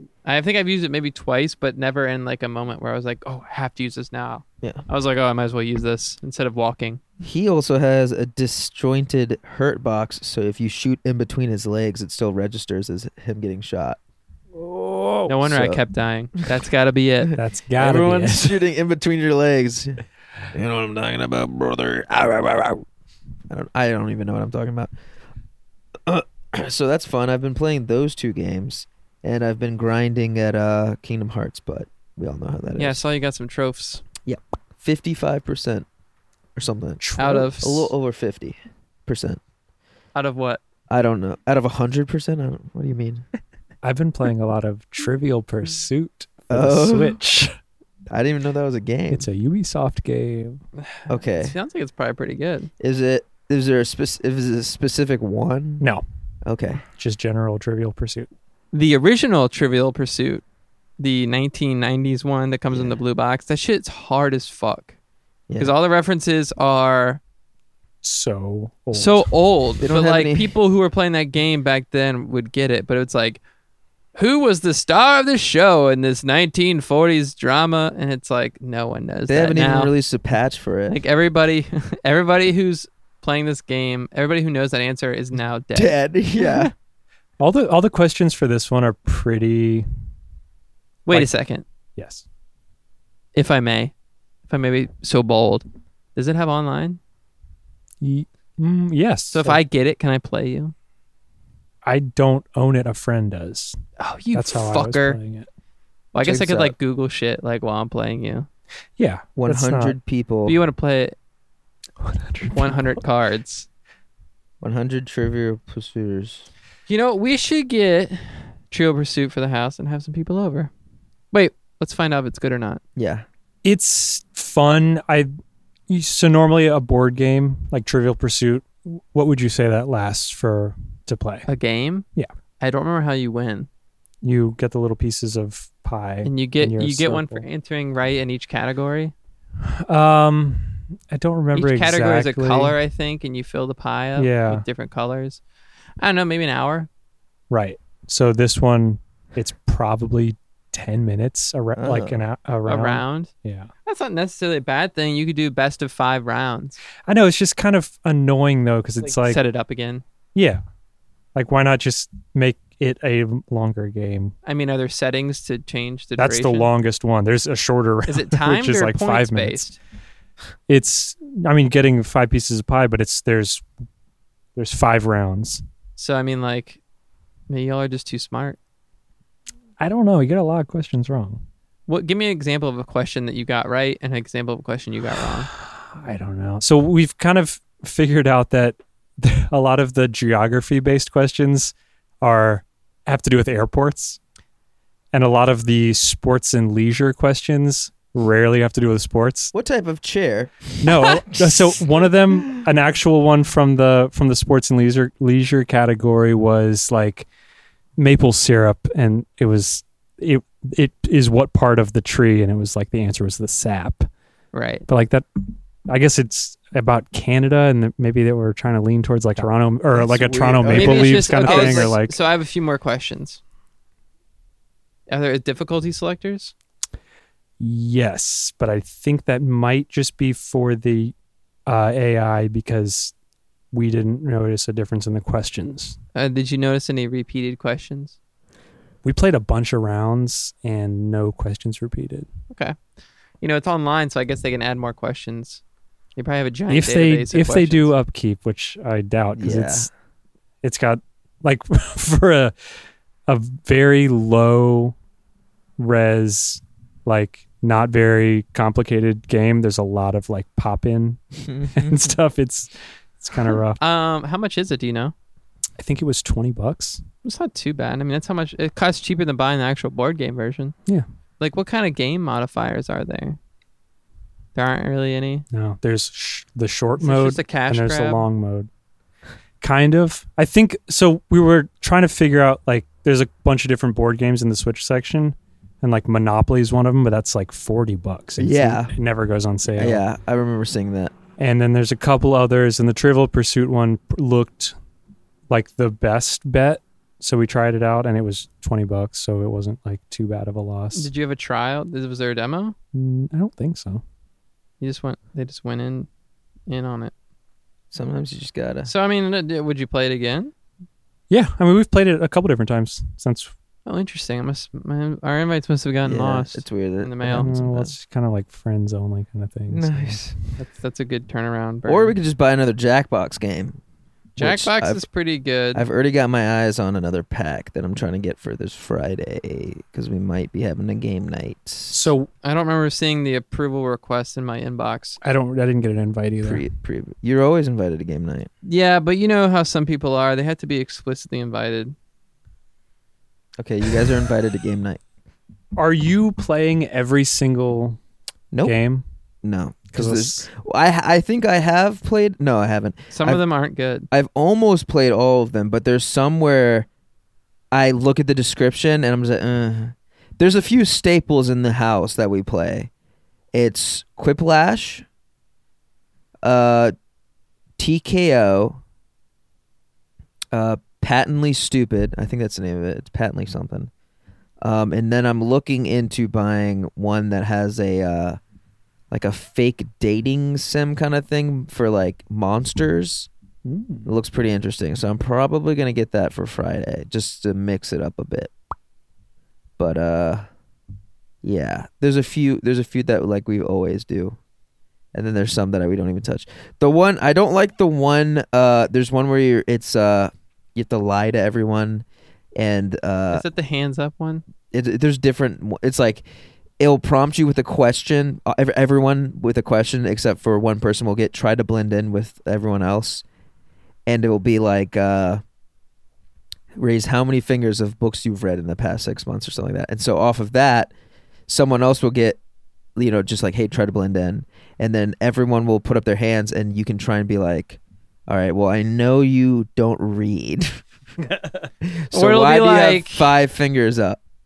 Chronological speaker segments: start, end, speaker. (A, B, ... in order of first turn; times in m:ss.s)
0:00.2-0:07.0 A
0:07.2-0:14.0 B
0:14.5-0:15.3 C
0:15.3-0:17.3 A
0:15.4-0:15.8 B
0:17.3-0:18.6 C
0:17.8-0:22.8 B
0:23.5-0:24.9 B
0:26.0-0:33.0 B
0:32.8-0:34.0 A
0:34.2-0:35.8 B
0:36.6-0:37.0 B
0:37.0-0:37.5 C
0:37.2-0:37.9 A
0:37.6-0:39.4 B
0:40.1-0:40.6 A
0:40.9-0:43.2 B
0:43.8-0:47.5 C
0:46.5-0:47.2 B
0:48.1-0:49.2 B
0:49.1-0:50.6 C
0:50.8-0:52.7 A
0:51.1-0:51.5 B
0:52.8-0:55.8 B
0:56.4-0:56.8 B
0:56.9-0:58.3 C
0:58.7-1:00.4 A
1:01.0-1:04.9 A
1:02.7-1:03.0 B
1:05.6-1:07.2 A
1:08.0-1:09.3 C
1:08.9-1:13.4 A
1:09.8-1:10.5 B
1:14.2-1:19.9 A
1:19.3-1:21.0 B
1:20.9-1:26.7 A
1:25.7-1:26.7 B
1:27.4-1:29.9 C
1:31.0-1:31.6 A
1:32.0-1:32.2 C
1:33.3-1:33.9 A
1:34.5-1:37.0 A
1:38.0-1:39.4 C
1:39.3-1:40.7 A
1:41.8-1:43.8 C
1:44.0-1:45.2 A
1:44.3-1:45.5 C
1:46.1-1:48.5 A
1:46.2-1:46.7 B
1:49.0-1:50.0 C
1:49.4-1:50.6 B
1:50.4-1:51.1 A
1:52.0-1:53.0 C
1:52.5-1:53.7 A
1:54.6-1:56.5 B
1:56.9-2:00.7 A
2:01.3-2:02.8 A
2:03.0-2:03.2 B
2:03.6-2:05.3 C
2:05.9-2:11.4 C
2:11.5-2:12.0 A
2:12.6-2:13.7 A
2:14.2-2:17.4 C
2:16.2-2:19.1 A
2:19.6-2:22.8 C
2:21.5-2:25.4 A
2:24.2-2:24.6 C
2:26.0-2:26.9 A
2:27.5-2:33.7 C
2:31.8-2:32.2 B
2:32.6-2:33.3 A
2:33.8-2:36.8 A
2:37.1-2:39.4 C
2:39.0-2:40.0 A
2:40.3-2:40.6 C
2:41.4-2:44.3 C
2:44.4-2:46.7 A
2:46.2-2:49.7 C
2:48.1-2:49.8 A
2:50.7-2:53.6 C
2:54.6-2:55.6 C
2:56.0-2:56.8 A
2:57.5-2:58.6 A
2:59.8-3:01.4 C
3:01.9-3:05.5 A
3:05.5-3:14.2 C
3:15.1-3:19.5 C
3:19.5-3:21.8 B
3:20.8-3:27.2 C
3:28.0-3:34.1 C
3:34.5-3:34.8 A
3:34.9-3:42.2 C
3:39.9-3:41.9 B
3:40.7-3:43.4 A
3:45.1-3:46.5 A
3:47.6-3:51.1 C
3:51.7-3:53.1 C
3:53.7-3:56.0 C
3:56.1-3:58.2 A
3:59.0-4:02.3 C
4:02.5-4:02.8 A
4:03.4-4:05.6 A
4:06.2-4:07.9 A
4:06.7-4:09.9 C
4:09.4-4:09.9 B
4:10.6-4:12.5 C
4:13.3-4:14.9 C
4:15.8-4:23.8 C
4:21.4-4:22.1 B
4:23.8-4:25.1 A
4:25.8-4:27.0 C
4:27.2-4:30.7 A
4:31.4-4:33.4 A
4:34.5-4:35.4 A
4:35.5-4:38.7 C
4:37.0-4:38.2 A
4:39.6-4:50.0 C
4:48.4-4:48.9 B
4:49.8-4:51.1 B
4:51.4-4:54.7 C
4:55.5-5:01.1 C
5:00.9-5:02.8 A
5:02.9-5:04.0 C
5:04.8-5:06.1 A
5:06.7-5:07.1 A
5:07.9-5:08.9 B
5:08.8-5:10.5 A
5:11.3-5:13.5 C
5:13.8-5:17.5 A
5:16.0-5:17.9 B
5:17.3-5:20.2 C
5:19.7-5:20.3 B
5:20.6-5:22.2 A
5:21.8-5:23.8 B
5:24.4-5:25.8 A
5:24.4-5:25.0 B
5:25.7-5:32.1 B
5:31.9-5:32.3 C
5:32.4-5:35.2 A
5:35.2-5:36.6 C
5:36.4-5:38.5 B
5:38.6-5:41.9 A
5:43.6-5:45.0 B
5:45.8-5:48.0 C
5:48.6-5:49.0 C
5:49.4-5:53.4 B
5:49.9-5:50.5 C
5:53.1-5:54.1 A
5:54.1-5:56.9 B
5:57.7-6:02.9 B
6:03.5-6:05.0 B
6:06.4-6:06.9 B
6:07.8-6:08.8 B
6:10.5-6:13.9 B
6:14.6-6:18.4 B
6:19.1-6:23.3 B
6:23.6-6:24.1 C
6:24.0-6:28.5 B
6:29.8-6:30.5 B
6:31.4-6:34.4 B
6:35.1-6:42.0 B
6:42.6-6:43.4 B
6:43.3-6:44.4 A
6:44.7-6:46.2 B
6:46.8-6:53.2 B
6:54.1-6:55.4 B
6:56.7-7:00.9 B
7:01.5-7:02.4 B
7:03.0-7:10.8 B
7:11.8-7:14.2 B
7:12.1-7:13.3 A